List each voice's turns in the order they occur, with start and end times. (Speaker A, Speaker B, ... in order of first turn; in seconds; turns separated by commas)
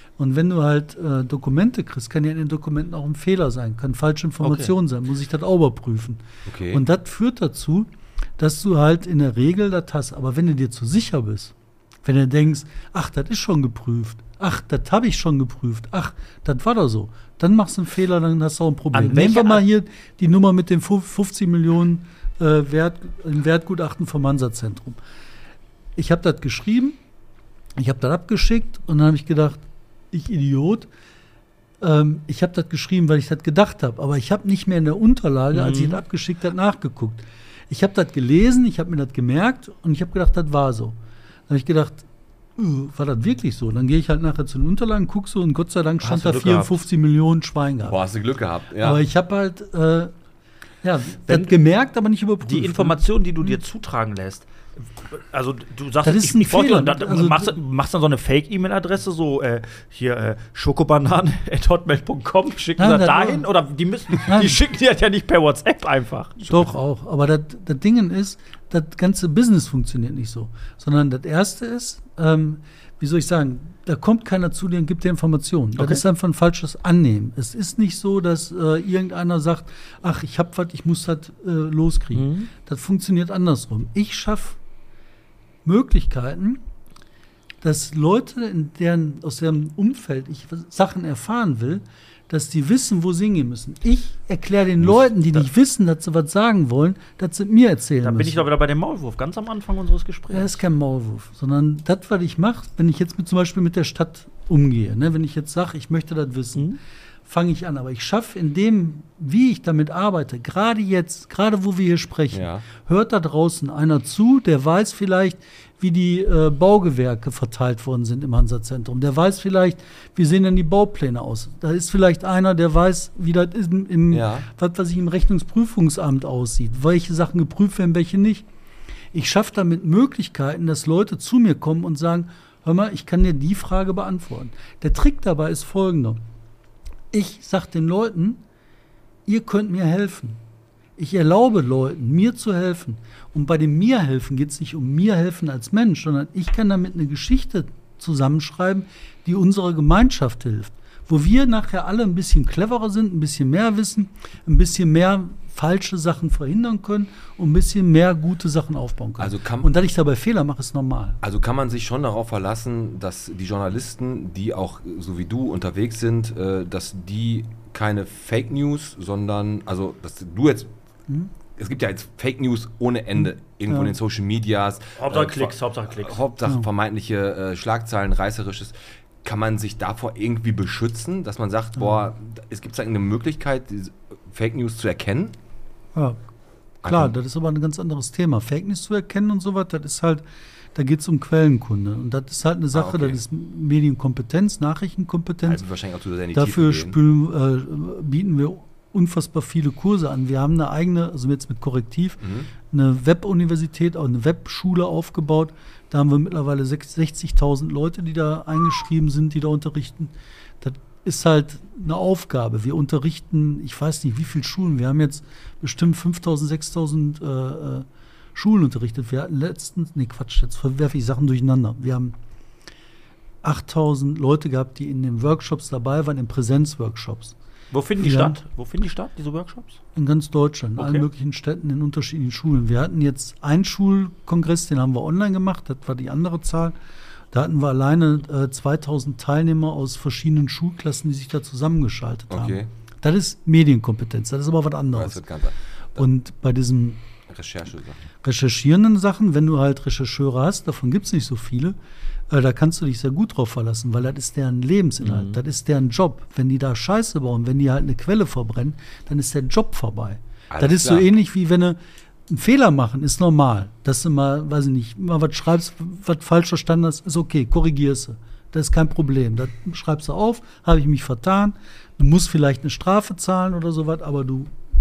Speaker A: 0.2-25.0, Speaker B: 4.4-4.7, Speaker C: 6.5-6.8, Speaker B: 18.9-19.6, Speaker A: 25.9-27.0, Speaker A: 27.8-30.9, Speaker A: 31.8-41.0, Speaker B: 35.5-36.0, Speaker A: 41.5-48.0, Speaker B: 46.0-46.8, Speaker C: 47.8-49.0, Speaker A: 48.8-50.1, Speaker A: 50.8-53.5, Speaker B: 52.5-54.5, Speaker B: 55.0-66.7, Speaker A: 56.0-57.5, Speaker A: 62.8-63.5, Speaker A: 64.2-64.6, Speaker A: 66.4-84.6, Speaker B: 82.1-82.5, Speaker A: 85.6-86.6, Speaker A: 87.6-98.5, Speaker B: 98.0-100.6, Speaker A: 100.3-106.7, Speaker A: 107.2-128.5, Speaker C: 112.3-112.6, Speaker C: 124.1-124.5, Speaker A: 129.1-136.2, Speaker A: 137.1-138.4, Speaker A: 139.2-140.4, Speaker A: 141.0-161.2, Speaker C: 159.2-159.7, Speaker C: 161.2-170.7, Speaker C: 171.6-185.3, Speaker A: 173.7-173.9, Speaker B: 175.0-176.2, Speaker C: 186.8-187.1, Speaker A: 186.8-190.2, Speaker A: 190.7-195.6, Speaker C: 192.7-193.2, Speaker C: 195.4-197.0, Speaker A: 196.3-222.2, Speaker C: 202.2-202.5, Speaker A: 223.4-227.3, Speaker B: 227.7-229.8, Speaker A: 228.0-228.4, Speaker A: 229.9-236.8, Speaker B: 230.8-231.1, Speaker A: 237.3-245.2, Speaker C: 242.3-242.7, Speaker C: 244.9-246.1, Speaker A: 246.0-247.0, Speaker C: 247.3-248.1, Speaker A: 248.2-251.8, Speaker A: 252.3-274.5, Speaker B: 255.0-255.4, Speaker C: 260.5-261.1